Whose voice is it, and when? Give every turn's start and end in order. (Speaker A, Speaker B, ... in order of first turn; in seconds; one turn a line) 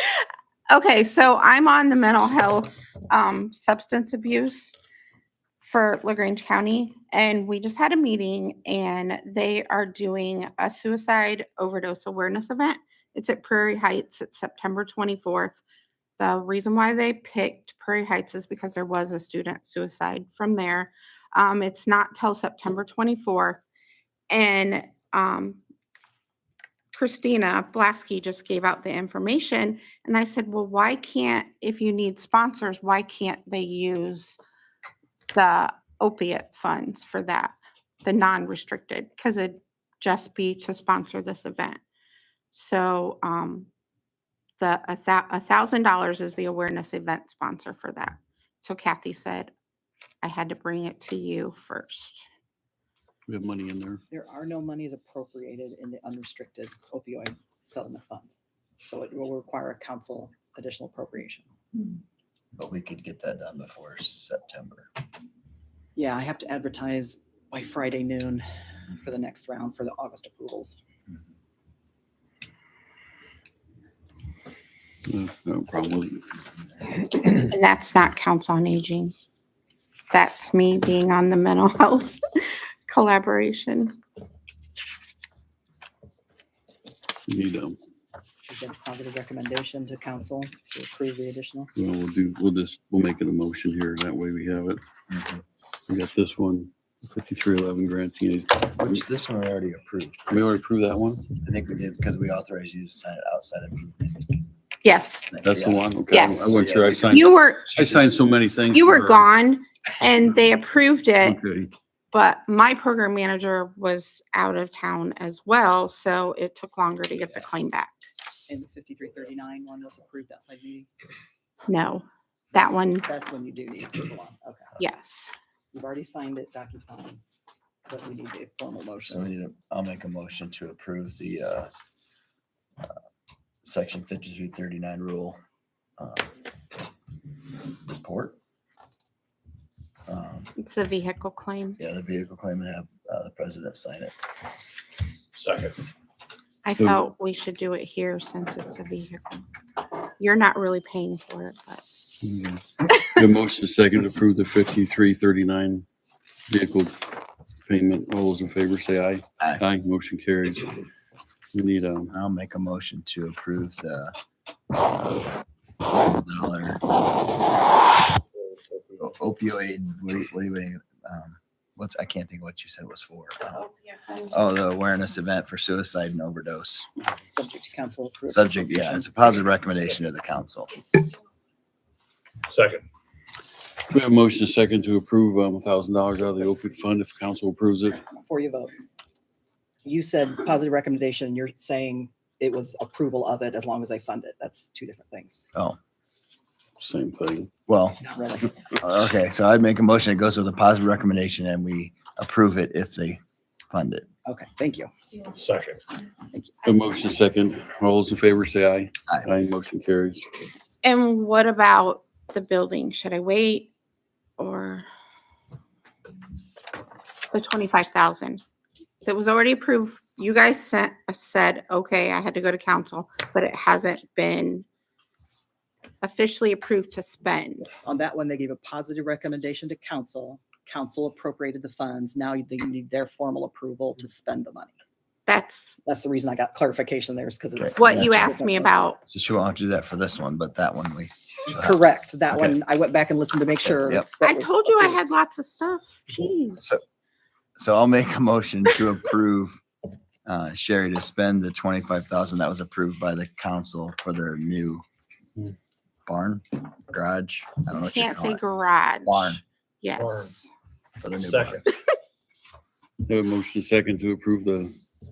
Speaker A: 0.2-4.8
Speaker A: 5.6-15.6
Speaker A: 16.2-23.6
Speaker A: 24.3-25.6
Speaker A: 26.9-34.4
Speaker A: 35.3-41.8
Speaker A: 42.5-43.7
Speaker A: 44.6-49.5
Speaker A: 50.2-52.2
Speaker B: 53.3-54.0
Speaker C: 54.1-61.5
Speaker D: 62.5-64.9
Speaker C: 66.0-68.4
Speaker C: 69.0-70.8
Speaker B: 75.1-76.2
Speaker A: 77.2-79.1
Speaker A: 80.1-84.0
Speaker B: 87.3-87.8
Speaker C: 88.4-91.7
Speaker B: 91.8-94.8
Speaker D: 95.1-95.4
Speaker B: 95.9-99.0
Speaker D: 98.8-100.4
Speaker B: 100.3-101.3
Speaker D: 101.4-104.5
Speaker A: 104.8-105.3
Speaker D: 105.3-108.1
Speaker B: 105.4-109.2
Speaker A: 106.1-106.6
Speaker A: 107.1-107.7
Speaker A: 108.7-111.4
Speaker B: 111.2-111.7
Speaker A: 112.1-118.0
Speaker C: 118.5-120.9
Speaker A: 121.7-123.1
Speaker C: 122.5-124.7
Speaker A: 124.8-125.3
Speaker C: 125.7-127.2
Speaker C: 127.9-129.3
Speaker D: 129.1-131.7
Speaker D: 133.6-135.4
Speaker D: 136.0-136.3
Speaker D: 137.9-138.4
Speaker D: 140.1-140.5
Speaker A: 140.6-141.8
Speaker D: 141.8-144.1
Speaker E: 145.3-145.8
Speaker A: 146.6-149.4
Speaker A: 150.2-151.8
Speaker B: 152.2-155.8
Speaker B: 156.5-157.0
Speaker B: 157.6-160.8
Speaker B: 161.5-162.1
Speaker D: 162.1-164.1
Speaker D: 164.8-165.3
Speaker D: 165.8-166.8
Speaker D: 169.0-173.7
Speaker A: 173.9-174.2
Speaker D: 174.2-176.9
Speaker C: 177.0-179.1
Speaker D: 178.3-180.7
Speaker E: 182.5-182.8
Speaker B: 183.9-188.0
Speaker C: 188.1-188.7
Speaker C: 189.8-195.4
Speaker B: 196.8-197.5
Speaker D: 197.7-198.0
Speaker C: 198.0-198.6
Speaker D: 198.8-204.1
Speaker C: 204.2-204.9
Speaker E: 205.3-205.8
Speaker C: 206.3-206.6
Speaker B: 206.6-210.2
Speaker A: 210.8-213.7
Speaker A: 214.4-214.8
Speaker A: 217.3-218.4
Speaker A: 219.0-224.6
Speaker A: 226.0-227.7
Speaker C: 227.7-234.7
Speaker A: 235.3-235.8
Speaker C: 235.8-239.0
Speaker D: 237.5-238.3
Speaker A: 237.8-239.0
Speaker D: 239.1-242.6
Speaker C: 241.5-245.0
Speaker D: 243.6-244.1
Speaker A: 244.2-246.8
Speaker D: 247.6-249.6
Speaker D: 250.2-254.8
Speaker D: 256.1-258.4
Speaker A: 257.7-260.5
Speaker D: 259.1-259.4
Speaker E: 259.9-260.3
Speaker D: 261.0-261.6
Speaker E: 261.2-261.6
Speaker B: 263.1-264.7